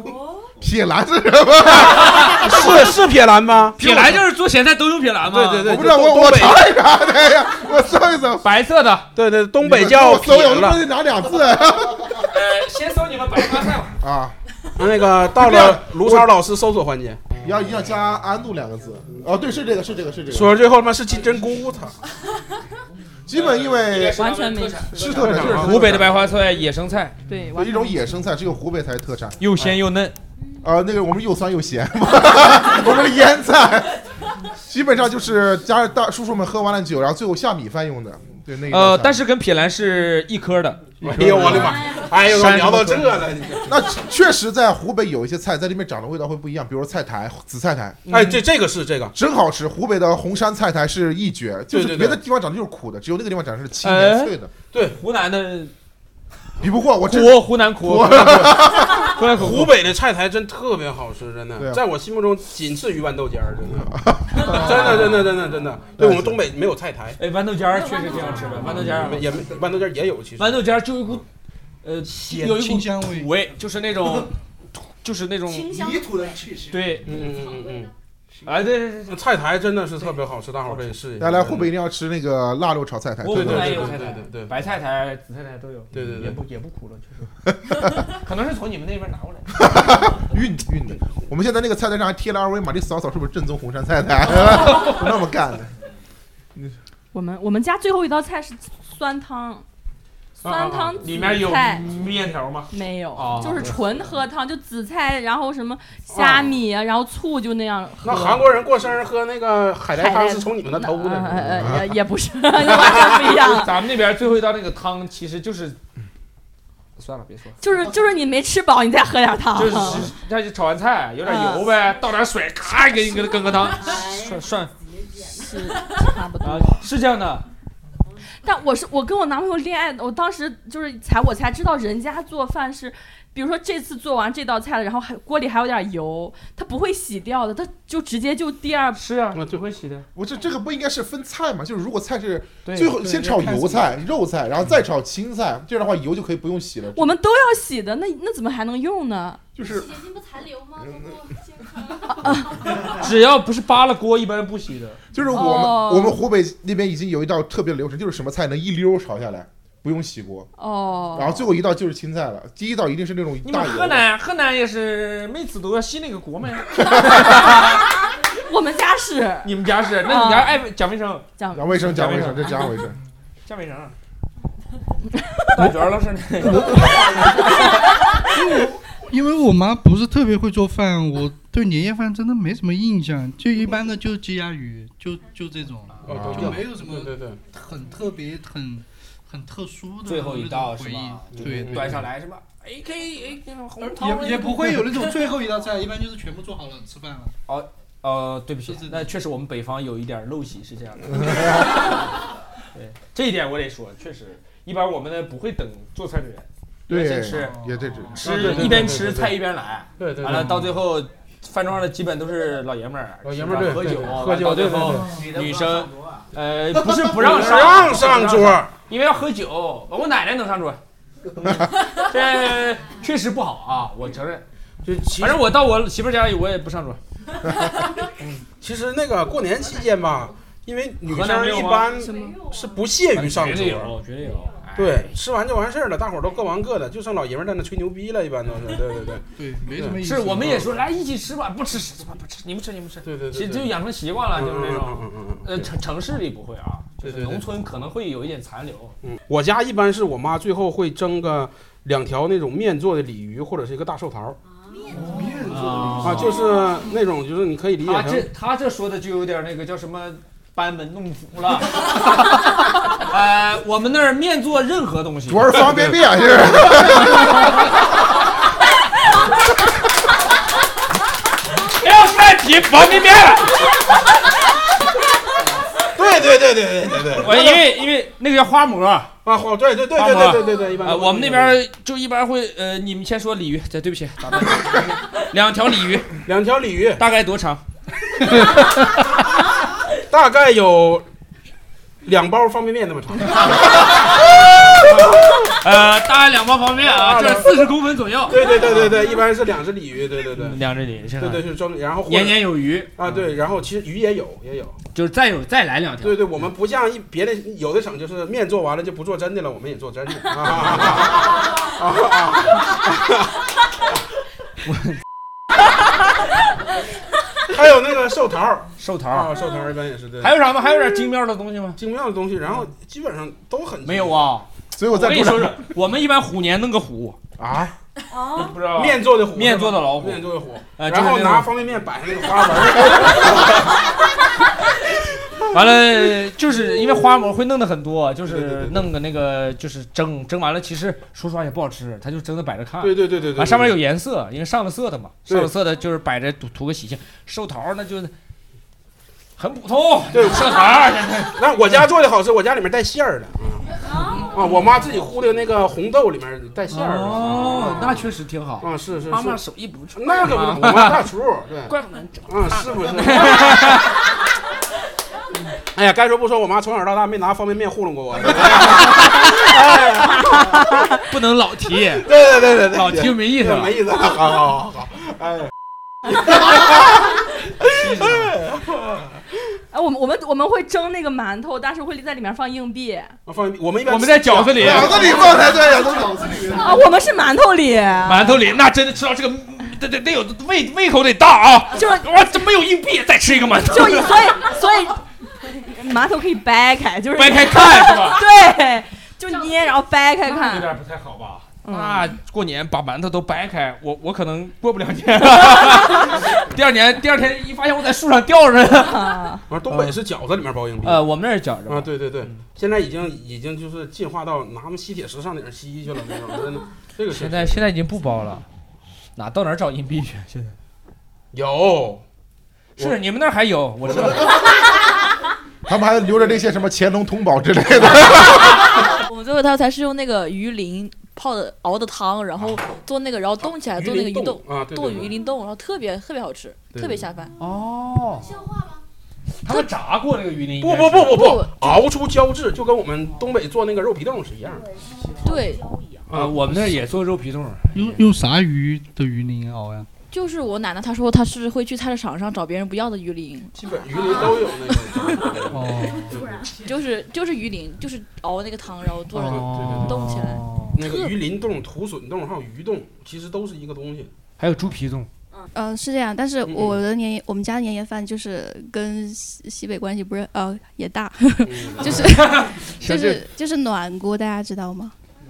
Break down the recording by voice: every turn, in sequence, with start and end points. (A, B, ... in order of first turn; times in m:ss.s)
0:00.6-0:02.9 A
0:02.0-0:02.7 B
0:02.4-0:04.2 C
0:03.8-0:05.7 B
0:05.3-0:06.7 C
0:05.7-0:08.5 A
0:08.4-0:09.1 B
0:09.2-0:10.8 C
0:09.6-0:12.3 A
0:12.2-0:14.0 B
0:14.0-0:14.4 A
0:14.8-0:17.4 C
0:15.4-0:16.3 A
0:17.4-0:20.6 A
0:20.3-0:22.0 C
0:23.3-0:24.3 A
0:23.3-0:27.2 B
0:24.2-0:25.1 D
0:24.9-0:26.2 A
0:25.0-0:26.1 C
0:27.3-0:28.0 D
0:27.6-0:29.4 A
0:29.4-0:30.2 B
0:30.6-0:33.9 A
0:34.7-0:39.2 A
0:38.7-0:43.2 B
0:41.0-0:43.7 C
0:41.1-0:41.7 A
0:43.7-0:48.0 A
0:48.1-0:48.4 B
0:48.1-0:49.1 C
0:49.1-0:54.5 A
0:51.7-0:52.2 C
0:53.8-0:55.7 B
0:54.7-0:55.0 C
0:56.6-0:59.1 A
0:57.1-0:59.8 B
0:59.3-1:07.2 C
1:03.9-1:05.3 A
1:04.4-1:05.2 B
1:06.0-1:06.4 A
1:07.2-1:09.3 B
1:08.5-1:10.6 C
1:10.4-1:11.2 B
1:11.8-1:14.3 B
1:12.1-1:13.3 E
1:14.9-1:16.0 B
1:16.7-1:17.1 B
1:17.0-1:17.9 C
1:18.4-1:19.2 B
1:19.1-1:21.7 C
1:21.2-1:24.0 A
1:23.2-1:27.3 B
1:23.3-1:24.5 C
1:25.9-1:26.4 C
1:27.8-1:29.5 B
1:29.6-1:35.7 A
1:34.7-1:34.9 B
1:37.1-1:39.6 D
1:40.4-1:41.0 C
1:40.4-1:41.9 D
1:41.0-1:43.7 B
1:42.7-1:48.4 D
1:46.1-1:46.6 C
1:48.0-1:51.8 C
1:50.0-1:53.7 D
1:52.7-1:53.0 C
1:52.8-1:55.8 B
1:57.0-1:57.6 B
1:57.6-2:00.1 D
1:59.6-2:04.7 B
2:01.2-2:01.7 D
2:05.3-2:06.8 D
2:06.4-2:07.5 B
2:08.4-2:19.0 D
2:19.0-2:20.0 B
2:19.3-2:19.7 C
2:20.2-2:27.2 A
2:22.6-2:23.7 B
2:23.0-2:23.8 E
2:27.0-2:29.4 D
2:29.6-2:30.1 A
2:30.8-2:31.2 A
2:32.1-2:32.7 D
2:32.8-2:35.0 B
2:35.1-2:40.5 A
2:35.3-2:36.2 D
2:40.6-2:41.4 D
2:41.1-2:44.0 A
2:43.4-2:47.8 B
2:46.9-2:47.3 A
2:48.4-2:49.5 D
2:49.4-2:52.7 B
2:50.0-2:50.6 D
2:51.4-2:51.8 D
2:51.5-2:53.0 A
2:53.5-2:54.0 B
2:55.5-2:57.9 B
2:56.5-2:57.2 E
2:58.4-3:12.0 E
3:06.0-3:07.4 C
3:06.1-3:06.5 A
3:10.0-3:15.3 B
3:11.3-3:11.9 C
3:13.8-3:17.3 E
3:17.5-3:22.1 B
3:18.7-3:19.0 E
3:21.1-3:21.8 A
3:22.8-3:40.8 B
3:26.9-3:28.3 A
3:27.3-3:27.8 E
3:28.2-3:29.3 C
3:30.0-3:30.8 C
3:33.2-3:35.2 C
3:37.1-3:38.7 C
3:41.4-3:44.4 B
3:44.8-3:45.5 C
3:45.1-3:47.0 B
3:48.6-3:54.0 C
3:51.1-3:52.0 B
3:53.2-3:55.1 B
3:54.8-4:00.7 C
3:59.4-4:00.6 E
4:00.0-4:09.0 B
4:03.1-4:03.7 C
4:04.4-4:05.7 C
4:07.0-4:07.4 C
4:09.0-4:14.4 C
4:15.0-4:16.4 B
4:16.0-4:18.3 C
4:17.8-4:26.0 B
4:25.3-4:27.6 A
4:31.8-4:33.6 B
4:36.0-4:37.6 C
4:37.2-4:39.1 B
4:39.2-4:41.6 C
4:40.0-4:46.1 B
4:46.3-4:47.0 C
4:47.0-4:47.6 B
4:50.1-4:51.0 C
4:52.0-4:55.5 C
4:53.8-4:59.0 B
4:56.8-4:57.7 C
4:58.3-5:00.6 C
5:00.4-5:01.5 B
5:01.2-5:04.8 C
5:02.0-5:02.9 B
5:04.9-5:06.3 B
5:06.0-5:13.3 C
5:14.7-5:15.0 B
5:17.5-5:20.4 C
5:18.8-5:19.3 B
5:20.2-5:21.8 B
5:21.8-5:24.3 C
5:23.8-5:27.2 B
5:24.8-5:25.6 A
5:27.4-5:27.7 A
5:28.3-5:31.5 B
5:28.7-5:33.6 C
5:35.5-5:48.1 B
5:38.3-5:38.9 C
5:42.8-5:43.7 C
5:49.4-5:51.8 B
5:50.1-5:58.1 C
5:56.7-6:01.1 B
5:58.6-5:59.4 C
6:00.0-6:01.7 C
6:01.7-6:03.9 B
6:02.3-6:03.9 C
6:05.8-6:10.6 C
6:11.0-6:12.1 B
6:12.0-6:15.4 C
6:12.7-6:13.8 B
6:16.2-6:16.6 C
6:17.8-6:18.3 B
6:18.0-6:18.8 C
6:19.7-6:23.2 D
6:23.3-6:25.3 C
6:23.9-6:25.4 B
6:24.6-6:26.8 A
6:26.5-6:28.4 D
6:28.0-6:34.4 B
6:31.7-6:32.0 D
6:33.7-6:40.7 D
6:37.2-6:38.2 B
6:40.3-6:49.2 B
6:41.6-6:42.1 D
6:48.8-6:49.4 D
6:49.5-6:51.1 C
6:49.7-6:50.0 B
6:50.8-6:52.4 B
6:51.7-6:57.7 C
6:57.1-6:58.5 B
6:59.2-7:00.6 B
7:01.3-7:02.0 C
7:02.8-7:04.3 B
7:05.7-7:08.6 A
7:08.8-7:17.3 F
7:13.5-7:15.1 C
7:16.8-7:17.1 C
7:17.4-7:18.5 B
7:19.4-7:21.3 B
7:20.6-7:24.7 C
7:21.1-7:21.8 F
7:25.2-7:25.8 F
7:26.1-7:26.7 C
7:26.1-7:28.0 B
7:27.7-7:29.9 E
7:30.1-7:34.4 F
7:33.6-7:36.4 C
7:34.9-7:35.3 F
7:35.5-7:36.2 E
7:36.5-7:41.2 F
7:39.1-7:40.2 C
7:39.1-7:40.8 B
7:40.8-7:44.1 C
7:44.4-7:45.1 B
7:45.6-7:54.9 G
7:46.4-7:46.8 C
7:51.4-7:52.5 C
7:52.0-7:53.2 B